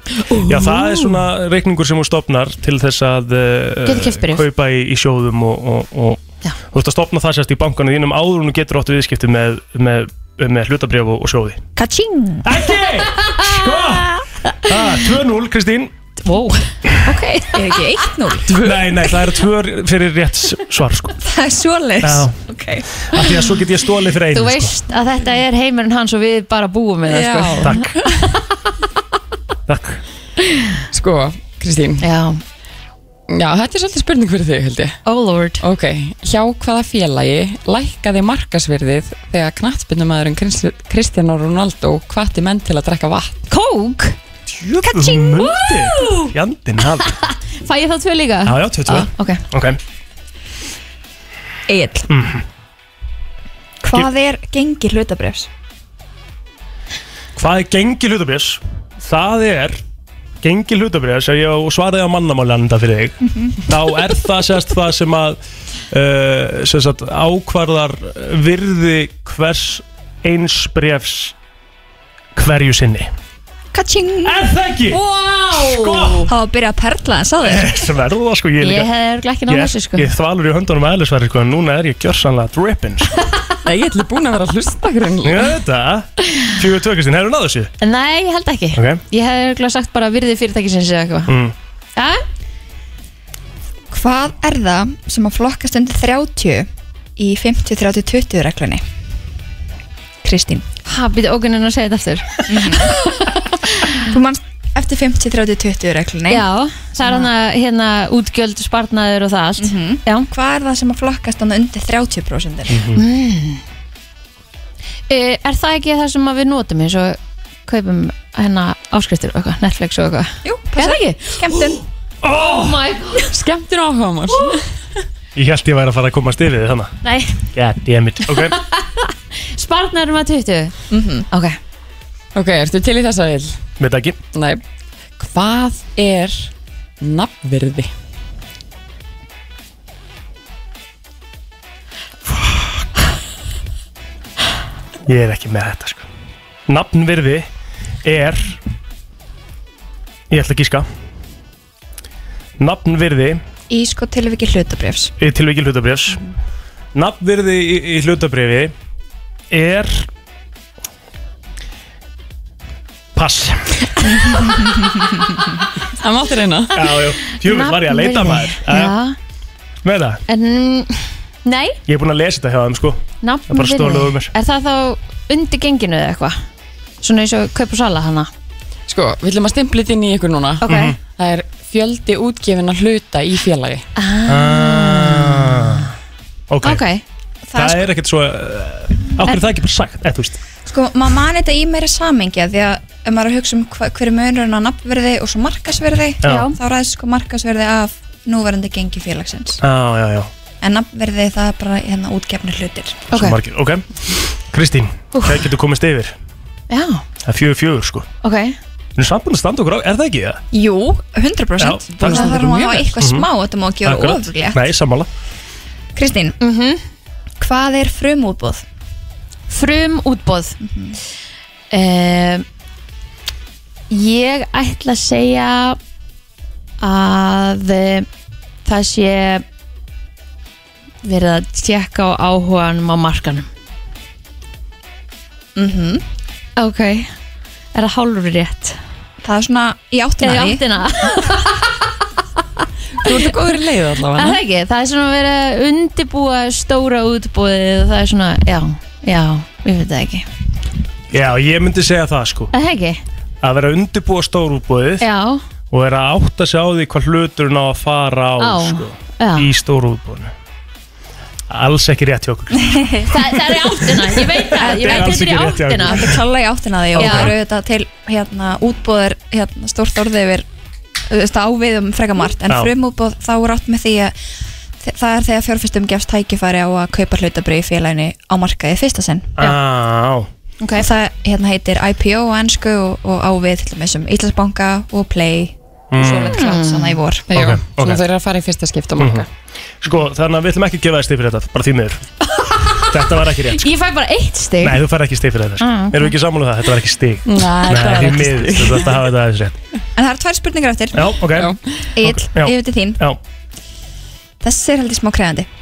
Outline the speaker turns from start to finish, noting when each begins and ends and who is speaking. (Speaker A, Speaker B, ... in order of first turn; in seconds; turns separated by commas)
Speaker A: 0.3-1.1, Speaker B: 0.5-11.6, Speaker A: 3.9-4.5, Speaker C: 11.8-12.6, Speaker B: 12.4-15.9, Speaker A: 13.4-14.7, Speaker A: 16.2-17.6, Speaker C: 17.5-18.6, Speaker B: 18.5-21.2, Speaker C: 21.2-23.0, Speaker B: 22.0-22.4, Speaker B: 23.1-24.8, Speaker A: 24.3-28.4, Speaker D: 27.1-27.7, Speaker B: 27.6-27.9, Speaker B: 29.7-30.0, Speaker D: 30.9-32.0, Speaker A: 32.0-32.4, Speaker D: 33.3-35.0, Speaker A: 35.1-35.6, Speaker D: 35.6-43.4, Speaker A: 43.5-44.2, Speaker B: 44.5-47.2, Speaker A: 44.9-46.3, Speaker A: 47.0-49.4, Speaker B: 48.5-49.8, Speaker C: 51.7-52.1, Speaker B: 52.1-52.4, Speaker C: 53.8-55.5, Speaker B: 57.4-59.8, Speaker B: 60.4-65.4, Speaker B: 65.9-71.3, Speaker B: 72.4-73.1, Speaker C: 73.7-74.4, Speaker B: 74.2-75.0, Speaker A: 74.9-76.3, Speaker B: 75.5-76.3, Speaker C: 76.3-77.8, Speaker B: 77.4-78.9, Speaker A: 78.6-80.1, Speaker B: 79.5-83.1, Speaker D: 83.6-85.5, Speaker B: 85.2-87.7, Speaker A: 87.8-91.3, Speaker B: 88.7-89.0, Speaker B: 91.3-91.5, Speaker A: 92.0-92.2, Speaker C: 93.9-98.8, Speaker C: 100.2-100.7, Speaker A: 100.9-104.0, Speaker C: 102.5-103.0, Speaker C: 104.0-106.5, Speaker A: 106.3-110.3, Speaker C: 109.6-112.8, Speaker B: 112.7-113.0, Speaker A: 112.9-113.6, Speaker A: 115.1-121.8, Speaker C: 120.4-121.8, Speaker B: 122.2-122.8, Speaker A: 122.3-123.3, Speaker D: 123.3-124.6, Speaker A: 124.3-124.6, Speaker B: 125.3-127.0, Speaker A: 127.0-127.5, Speaker B: 127.5-128.6, Speaker A: 128.3-130.8, Speaker C: 130.9-131.3, Speaker A: 131.3-131.6, Speaker D: 132.3-133.6, Speaker B: 133.8-134.2, Speaker D: 134.3-134.6, Speaker D: 135.2-137.9, Speaker B: 145.1-146.1, Speaker B: 146.7-147.5, Speaker B: 148.0-148.6, Speaker B: 150.3-150.9, Speaker B: 152.6-153.4, Speaker C: 153.7-155.1, Speaker B: 155.2-156.2, Speaker B: 156.9-158.7, Speaker B: 159.5-160.1, Speaker B: 163.1-164.2, Speaker D: 166.0-166.8, Speaker B: 166.7-168.9, Speaker A: 167.4-169.2, Speaker B: 169.8-170.2, Speaker A: 170.3-171.8, Speaker B: 171.9-174.3, Speaker A: 173.2-176.4, Speaker A: 177.0-178.3, Speaker D: 178.9-183.8, Speaker A: 180.6-180.9, Speaker B: 180.7-181.0, Speaker A: 184.0-185.8, Speaker B: 184.3-185.9, Speaker B: 186.5-186.8, Speaker A: 186.6-187.0, Speaker C: 187.5-187.9, Speaker B: 187.5-190.4, Speaker C: 190.7-199.6, Speaker B: 196.2-196.5, Speaker A: 196.2-196.6, Speaker B: 199.6-200.3, Speaker C: 200.6-203.1, Speaker B: 203.1-206.2, Speaker A: 203.1-203.4, Speaker A: 206.7-207.0, Speaker B: 207.2-208.1, Speaker A: 208.2-208.6, Speaker B: 209.0-210.4, Speaker C: 210.5-214.6, Speaker B: 211.6-213.3, Speaker A: 212.1-212.3, Speaker B: 213.8-215.1, Speaker C: 216.0-216.4, Speaker A: 216.4-216.8, Speaker C: 217.4-218.6, Speaker A: 219.5-220.6, Speaker C: 220.6-221.0, Speaker A: 221.7-222.4, Speaker A: 223.9-225.8, Speaker A: 226.8-228.1, Speaker A: 228.6-229.4, Speaker A: 231.0-233.5, Speaker C: 235.6-236.0, Speaker A: 236.6-237.1, Speaker A: 237.7-238.8, Speaker C: 239.2-240.6, Speaker A: 240.2-241.8, Speaker D: 243.0-244.4, Speaker A: 243.0-243.3, Speaker A: 244.1-250.3, Speaker B: 251.1-252.5, Speaker A: 252.5-253.0, Speaker B: 253.4-255.1, Speaker A: 255.0-255.4, Speaker B: 255.7-260.3, Speaker A: 258.4-259.5, Speaker B: 261.5-262.9, Speaker C: 262.6-263.1, Speaker A: 263.1-266.1, Speaker B: 264.3-266.2, Speaker C: 264.6-265.2, Speaker C: 265.8-270.5, Speaker B: 266.9-267.4, Speaker A: 267.0-267.3, Speaker C: 271.1-274.1, Speaker B: 272.5-272.7, Speaker C: 274.8-279.3, Speaker B: 279.4-280.3, Speaker A: 280.6-280.9, Speaker C: 280.8-287.4, Speaker B: 285.9-286.4, Speaker A: 286.0-287.0, Speaker D: 287.3-289.3, Speaker B: 287.3-288.0, Speaker B: 289.0-289.3, Speaker B: 289.8-292.0, Speaker A: 292.4-294.9, Speaker B: 292.9-293.7, Speaker B: 294.6-299.6, Speaker A: 295.6-296.1, Speaker D: 297.3-299.0, Speaker C: 300.0-301.2, Speaker B: 300.9-303.2, Speaker C: 301.9-303.0, Speaker C: 304.4-305.5